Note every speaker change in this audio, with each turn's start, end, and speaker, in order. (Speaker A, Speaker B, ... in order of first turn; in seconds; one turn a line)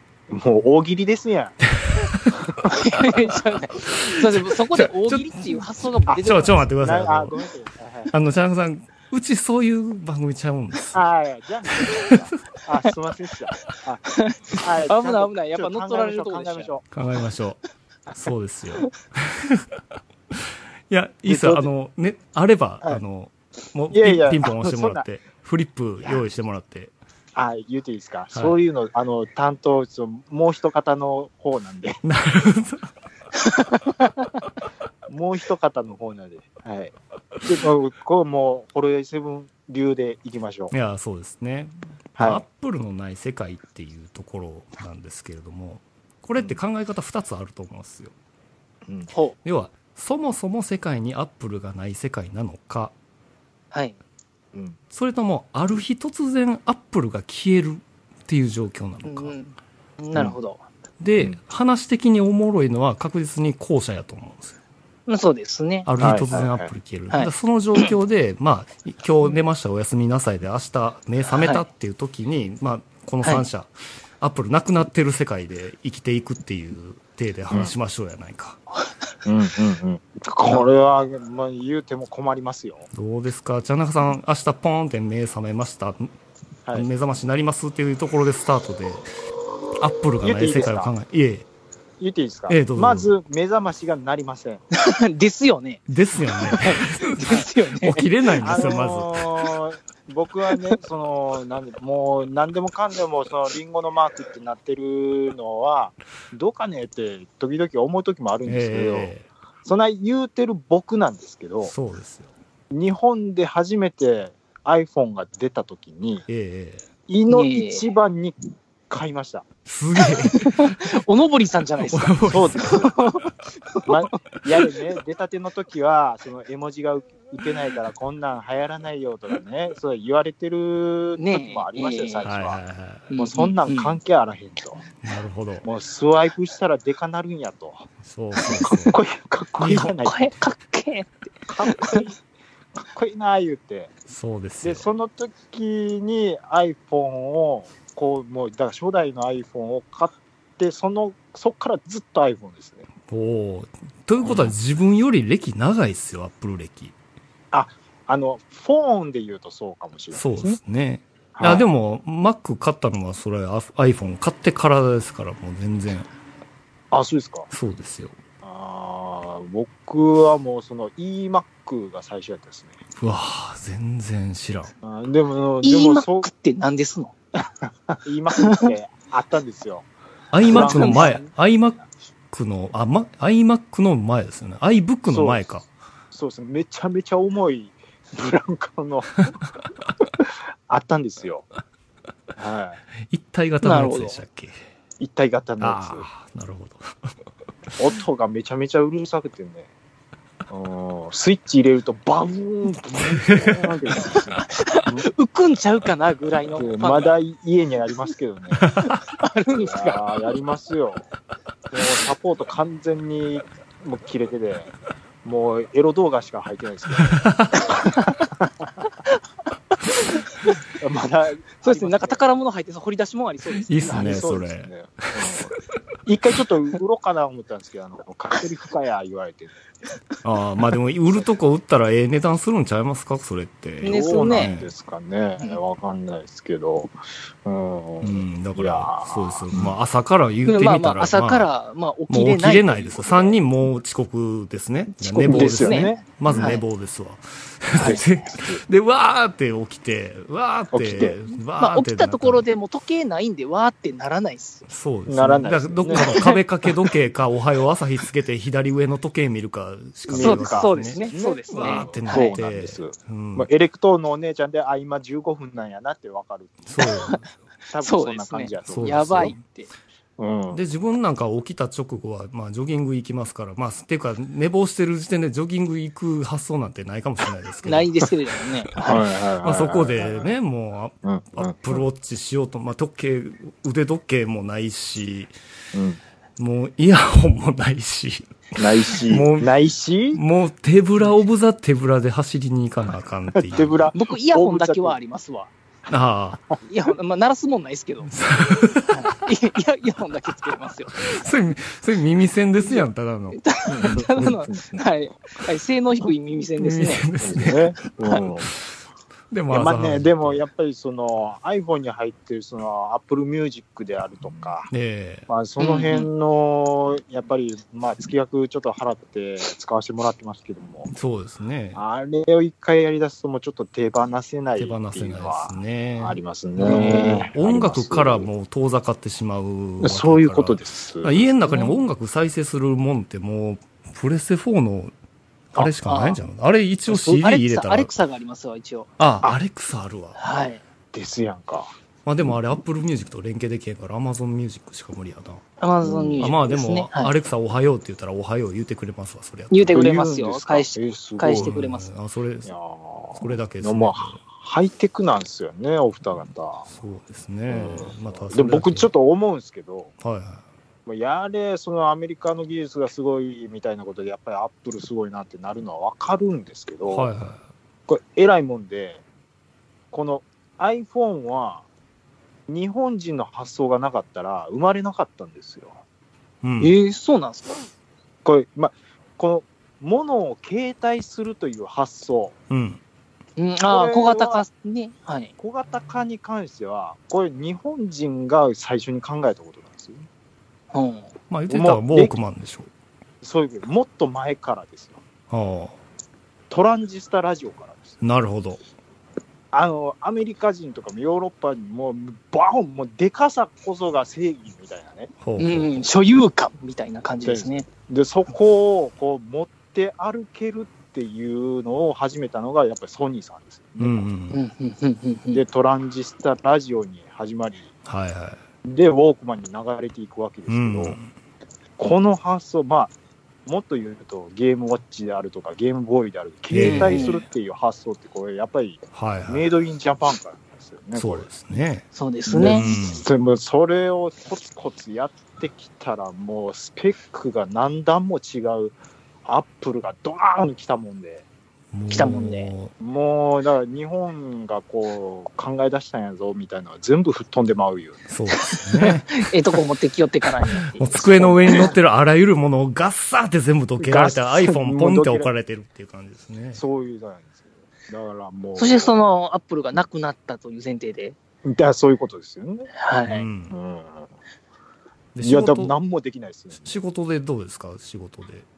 Speaker A: 0.3-1.6
Speaker B: 1.8-2.4
Speaker C: 2.7-6.6
Speaker B: 4.4-5.4
Speaker B: 6.2-7.3
Speaker A: 6.8-8.1
Speaker B: 8.1-11.0
Speaker A: 10.9-16.9
Speaker B: 11.8-12.1
Speaker C: 14.1-16.7
Speaker B: 16.9-17.6
Speaker B: 18.1-26.9
Speaker A: 21.3-21.7
Speaker A: 23.9-25.1
Speaker A: 27.4-32.0
Speaker B: 32.0-32.9
Speaker C: 33.6-34.1
Speaker A: 35.1-40.7
Speaker B: 40.7-48.1
Speaker A: 42.2-42.4
Speaker B: 49.4-52.9
Speaker C: 53.7-54.0
Speaker B: 54.9-59.4
Speaker C: 59.0-60.6
Speaker B: 61.0-64.6
Speaker C: 65.1-65.9
Speaker B: 65.9-78.6
Speaker A: 66.0-66.7
Speaker C: 67.1-67.9
Speaker C: 71.3-71.6
Speaker A: 79.2-82.9
Speaker B: 82.9-86.1
Speaker B: 86.7-89.1
Speaker B: 89.8-91.5
Speaker A: 90.2-90.9
Speaker A: 92.0-94.6
Speaker B: 92.5-93.1
Speaker C: 94.7-95.8
Speaker B: 95.9-99.3
Speaker C: 96.4-98.1
Speaker A: 98.4-109.1
Speaker B: 108.5-109.3
Speaker A: 109.7-111.7
Speaker B: 111.6-112.3
Speaker A: 112.7-116.3
Speaker B: 116.3-116.9
Speaker A: 117.1-118.4
Speaker C: 117.3-117.8
Speaker A: 118.9-119.5
Speaker B: 119.7-120.8
Speaker C: 120.1-124.0
Speaker B: 121.8-122.9
Speaker A: 122.3-123.0
Speaker A: 123.9-132.6
Speaker C: 131.2-132.3
Speaker B: 132.2-133.1
Speaker C: 133.1-133.9
Speaker A: 133.2-134.8
Speaker B: 135.0-135.7
Speaker A: 135.6-137.9
Speaker B: 138.0-139.0
Speaker A: 138.4-140.3
Speaker C: 139.6-141.1
Speaker A: 141.5-142.2
Speaker C: 141.6-142.1
Speaker A: 142.8-143.9
Speaker B: 144.1-144.9
Speaker A: 144.6-152.9
Speaker B: 153.1-156.9
Speaker A: 154.2-154.5
Speaker A: 157.5-160.6
Speaker B: 160.1-166.1
Speaker A: 161.4-161.7
Speaker A: 166.9-167.5
Speaker B: 167.5-168.2
Speaker A: 168.4-172.8
Speaker B: 173.0-174.7
Speaker A: 174.8-176.3
Speaker C: 175.6-177.1
Speaker A: 177.6-179.9
Speaker C: 178.4-178.7
Speaker B: 180.3-181.8
Speaker A: 180.4-181.2
Speaker C: 180.5-181.2
Speaker B: 182.3-185.7
Speaker A: 185.1-185.4
Speaker A: 186.1-189.4
Speaker A: 190.2-191.5
Speaker A: 192.4-192.8
Speaker B: 193.0-194.6
Speaker C: 193.6-194.2
Speaker A: 195.0-196.1
Speaker B: 195.6-197.2
Speaker A: 197.8-199.7
Speaker A: 200.5-205.1
Speaker B: 203.2-203.7
Speaker C: 204.4-207.2
Speaker A: 206.6-208.7
Speaker B: 208.6-208.9
Speaker C: 208.8-210.0
Speaker A: 209.6-211.1
Speaker A: 211.7-214.7
Speaker A: 215.2-218.7
Speaker B: 217.0-217.6
Speaker C: 220.0-220.6
Speaker A: 220.7-222.2
Speaker C: 221.6-224.2
Speaker B: 223.6-225.4
Speaker A: 223.8-225.5
Speaker A: 226.1-229.6
Speaker B: 230.2-234.7
Speaker C: 233.8-234.5
Speaker A: 233.8-236.9
Speaker A: 237.4-239.8
Speaker B: 238.0-241.5
Speaker C: 240.5-243.3
Speaker B: 242.1-252.4
Speaker C: 245.0-246.6
Speaker A: 245.2-246.6
Speaker A: 247.8-248.6
Speaker A: 250.7-251.2
Speaker C: 251.6-254.7
Speaker B: 254.7-263.5
Speaker A: 255.1-256.3
Speaker C: 255.9-256.4
Speaker A: 260.1-266.9
Speaker C: 260.2-262.4
Speaker B: 266.7-267.2
Speaker C: 266.8-267.2
Speaker A: 267.7-269.4
Speaker C: 267.8-269.7
Speaker B: 268.7-269.4
Speaker A: 270.2-270.6
Speaker B: 270.5-278.1
Speaker C: 277.6-279.0
Speaker A: 278.8-280.3
Speaker B: 278.9-285.3
Speaker A: 281.0-281.8
Speaker A: 285.7-286.0
Speaker B: 286.4-289.5
Speaker A: 288.6-290.2
Speaker B: 290.1-293.9
Speaker A: 293.4-295.0
Speaker C: 293.9-295.5
Speaker B: 295.9-296.4
Speaker C: 296.6-298.1
Speaker B: 298.1-299.1
Speaker C: 298.9-301.2
Speaker B: 301.0-303.4
Speaker C: 303.3-307.1
Speaker A: 303.7-304.8
Speaker B: 306.6-307.6
Speaker A: 307.2-308.5
Speaker B: 309.3-310.4
Speaker A: 309.5-314.7
Speaker B: 314.7-315.3
Speaker A: 315.3-320.9
Speaker C: 315.6-316.1
Speaker B: 320.9-321.8
Speaker A: 321.8-328.3
Speaker B: 324.6-334.9
Speaker C: 326.6-327.3
Speaker A: 329.8-331.3
Speaker C: 331.5-331.7
Speaker B: 335.5-337.9
Speaker C: 335.9-336.2
Speaker C: 336.9-338.9
Speaker B: 339.0-340.2
Speaker C: 340.2-340.6
Speaker A: 340.9-341.7
Speaker B: 342.1-345.4
Speaker C: 345.6-347.1
Speaker A: 345.8-346.3
Speaker B: 346.2-349.9
Speaker C: 349.5-351.9
Speaker A: 349.7-351.6
Speaker B: 351.3-352.5
Speaker A: 352.4-356.7
Speaker B: 353.2-354.2
Speaker B: 356.7-358.9
Speaker A: 357.5-359.9
Speaker B: 360.0-360.4
Speaker A: 360.9-367.1
Speaker B: 366.9-367.5
Speaker A: 367.9-369.0
Speaker A: 369.9-371.6
Speaker A: 372.5-375.8
Speaker B: 376.4-376.8
Speaker C: 376.6-377.7
Speaker A: 378.2-382.4
Speaker B: 382.5-382.8
Speaker C: 383.4-385.3
Speaker A: 383.6-384.4
Speaker A: 385.4-390.1
Speaker C: 390.7-391.1
Speaker B: 391.3-392.7
Speaker A: 391.5-392.2
Speaker A: 393.2-395.0
Speaker B: 395.3-395.8
Speaker A: 396.5-398.0
Speaker B: 398.0-398.6
Speaker A: 399.5-405.1
Speaker B: 405.2-405.8
Speaker C: 405.4-407.7
Speaker A: 407.2-414.1
Speaker B: 413.8-414.4
Speaker C: 414.3-415.4
Speaker A: 415.3-417.7
Speaker B: 417.9-418.4
Speaker A: 418.6-421.0
Speaker B: 420.5-421.1
Speaker A: 421.8-422.9
Speaker A: 423.5-431.3
Speaker B: 426.5-427.1
Speaker C: 426.6-427.2
Speaker B: 428.9-429.5
Speaker B: 430.9-431.9
Speaker C: 431.9-432.7
Speaker A: 432.3-441.2
Speaker B: 432.4-433.0
Speaker B: 441.7-442.7
Speaker C: 441.9-442.5
Speaker A: 442.8-448.1
Speaker B: 448.1-449.3
Speaker C: 448.5-451.7
Speaker B: 450.7-456.6
Speaker A: 451.0-451.8
Speaker A: 453.8-455.3
Speaker A: 456.6-459.0
Speaker C: 458.6-461.2
Speaker A: 461.4-462.7
Speaker C: 462.8-463.3
Speaker B: 463.1-463.6
Speaker A: 463.5-464.1
Speaker B: 465.1-465.8
Speaker A: 465.2-466.8
Speaker B: 466.6-468.5